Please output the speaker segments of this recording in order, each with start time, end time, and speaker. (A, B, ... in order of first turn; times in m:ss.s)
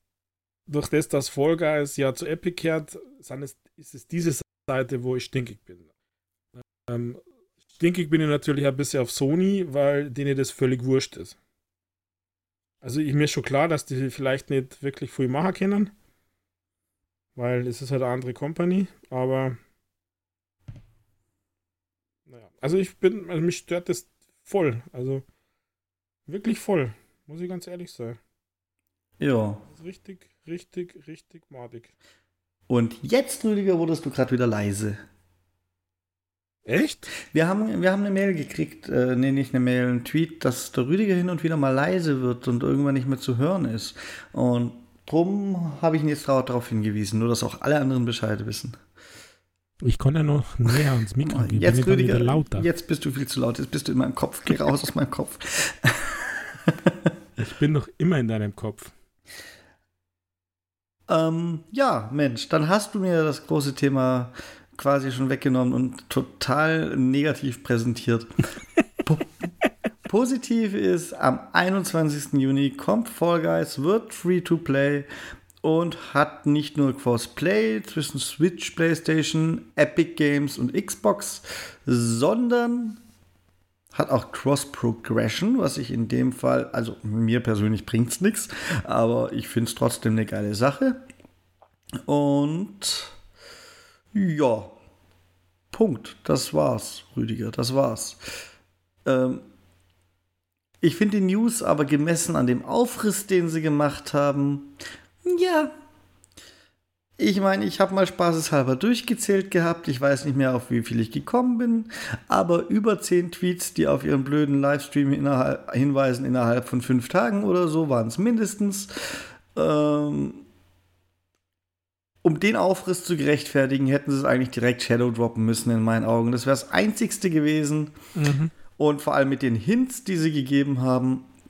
0:00.7-0:05.9 A
0:06.6-0:07.2 A
0:07.8-0:11.4 A
0:12.8-0:15.9 A
0:17.4-0:19.6 A
0:22.3-0:25.2 A
0:26.3-0:28.2 A
0:29.2-0:29.6 B
0:29.7-0:31.9 A
0:32.7-0:35.0 B
0:36.6-0:37.1 A
0:37.3-0:48.8 B
0:49.8-0:52.7 A
0:50.7-0:57.0 B
0:57.4-0:58.9 A
1:01.1-1:08.3 B
1:09.0-1:09.3 B
1:10.0-1:15.1 B
1:15.6-1:23.0 B
1:23.9-1:31.0 B
1:32.0-1:33.2 B
1:34.1-1:34.7 B
1:35.7-1:38.3 B
1:39.0-1:39.4 B
1:40.8-1:45.7 B
1:47.2-2:00.4 B
2:02.2-2:07.9 B
2:08.1-2:08.5 A
2:08.8-2:11.3 B